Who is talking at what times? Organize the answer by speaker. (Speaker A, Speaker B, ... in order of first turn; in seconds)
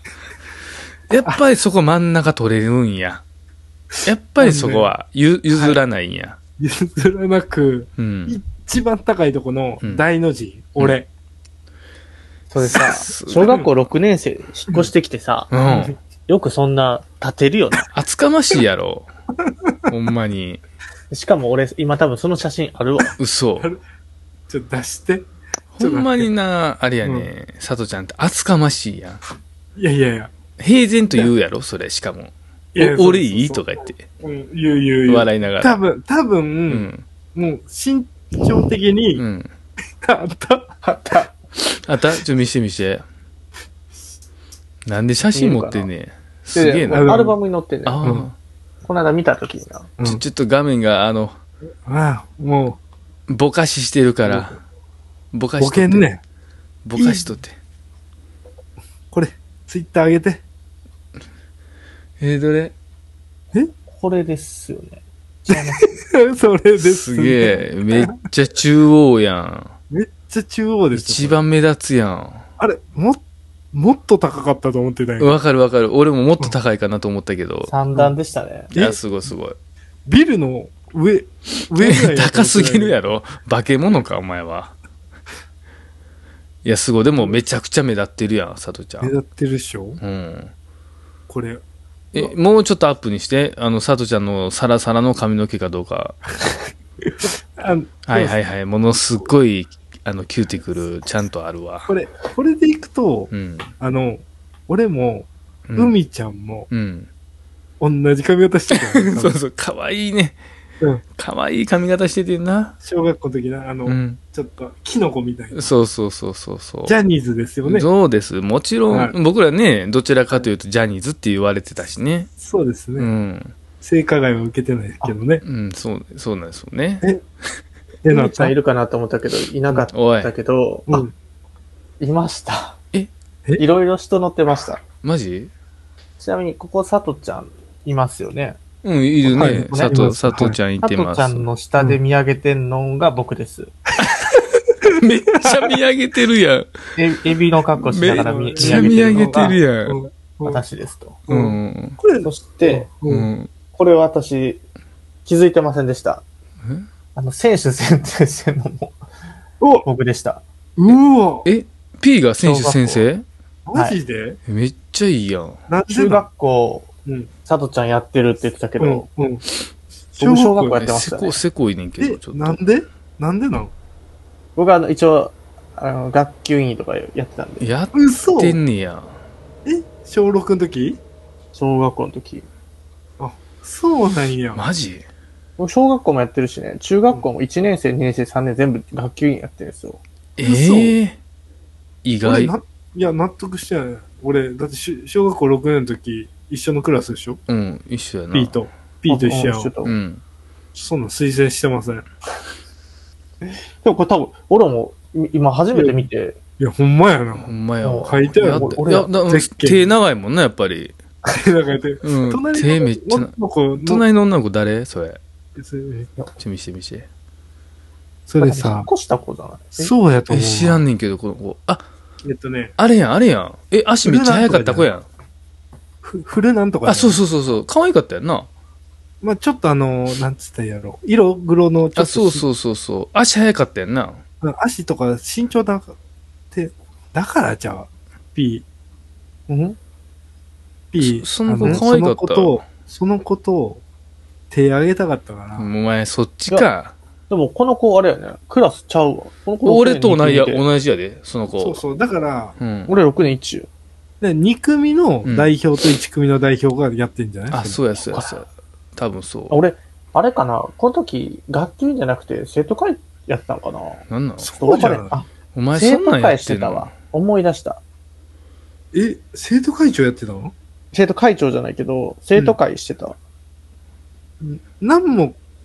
Speaker A: 1.1-3.2, 4.0-6.4, 8.0-8.4, 12.6-13.6, 15.5-15.9, 17.9-19.1, 19.9-20.6, 23.2-23.7, 25.7-29.2, 30.6-34.0, 35.0-35.8, 36.7-37.0, 39.1-39.5, 41.8-43.0, 44.9-47.1, 47.8-48.3, 50.0-51.4, 53.3-54.6, 55.3-56.1, 56.8-57.5, 62.2-62.7, 66.8-69.7, 70.9-72.5, 75.2-77.7, 78.7-79.5, 81.8-84.7, 86.6-89.1, 90.0-90.5, 92.1-96.2, 98.0-101.9, 103.3-103.7, 105.7-105.9, 106.7-107.1, 108.7-110.4, 111.1-112.7, 113.8-114.2, 115.5-117.0, 117.6-122.3, 123.0-123.5, 125.4-127.1, 129.9-130.3, 135.0-135.5, 138.8-141.4, 144.8-146.7, 147.8-150.0, 151.3-152.0, 153.1-153.5, 161.4-163.2, 164.5-165.6, 170.8-172.6, 177.6-179.1, 184.5-185.1, 190.4-191.2, 192.0-192.5, 197.5-198.6, 199.8-200.2, 207.3-210.9, 212.0-215.2, 216.4-217.1, 220.3-221.8, 222.8-225.1, 226.8-228.5, 231.9-234.2, 241.0-242.6, 245.6-246.9, 249.6-251.8, 252.6-252.9, 255.2-255.5, 257.5-259.6, 264.1-264.5, 265.5-266.9
Speaker B: 4.4-4.9, 5.5-5.8, 6.6-11.1, 15.6-15.9, 24.5-25.3, 25.8-26.3, 27.0-27.3, 29.8-30.3, 32.7-39.2, 40.0-40.8, 46.9-47.4, 48.0-48.3, 51.9-52.8, 54.2-54.6, 55.6-56.2, 57.0-57.3, 59.1-60.4, 65.5-68.2, 69.9-71.4, 72.6-73.2, 73.7-75.3, 78.7-79.0, 80.1-83.0, 89.0-90.0, 91.3-91.6, 97.6-98.4, 101.9-106.7, 107.8-109.4, 112.8-115.7, 116.8-117.9, 118.9-119.1, 122.4-123.1, 123.8-125.4, 128.0-128.5, 130.9-131.1, 139.3-140.6, 144.8-145.8, 148.0-150.6, 151.3-153.3, 159.6-159.8, 160.8-161.5, 163.7-164.4, 165.7-166.3, 167.1-167.3, 168.8-169.4, 170.1-170.8, 172.0-173.7, 177.9-178.6, 179.6-181.0, 183.2-184.6, 190.4-190.9, 192.2-197.4, 198.3-199.7, 200.7-202.1, 205.7-209.9, 211.2-214.0, 215.6-216.3, 218.3-218.9, 219.8-220.8, 222.2-222.7, 224.0-224.9, 226.0-227.2, 229.2-232.4, 234.4-235.9, 236.5-238.6, 240.9-243.8, 244.5-245.7, 251.5-252.6, 254.2-257.9, 264.5-265.1, 268.9-270.5, 274.4-275.4
Speaker C: 12.5-15.5, 16.3-17.9, 21.1-23.1, 40.8-41.3, 45.3-45.9, 46.5-48.0, 48.8-49.9, 64.0-65.9, 77.7-78.7, 128.1-131.0, 132.0-132.8, 133.6-134.8, 136.2-138.6, 139.2-143.7, 146.9-149.6, 150.4-151.2, 152.2-152.9, 153.7-154.6, 155.2-156.2, 157.2-158.9, 159.8-160.4, 162.4-163.1, 165.9-166.9, 167.4-169.1, 170.2-171.4, 174.6-177.7, 181.5-182.4, 185.6-190.0, 199.1-200.0, 203.4-206.4, 207.8-209.1, 218.4-219.9, 239.5-239.8, 247.3-250.6, 252.9-253.7, 259.5-264.0, 264.6-267.8, 270.9-273.2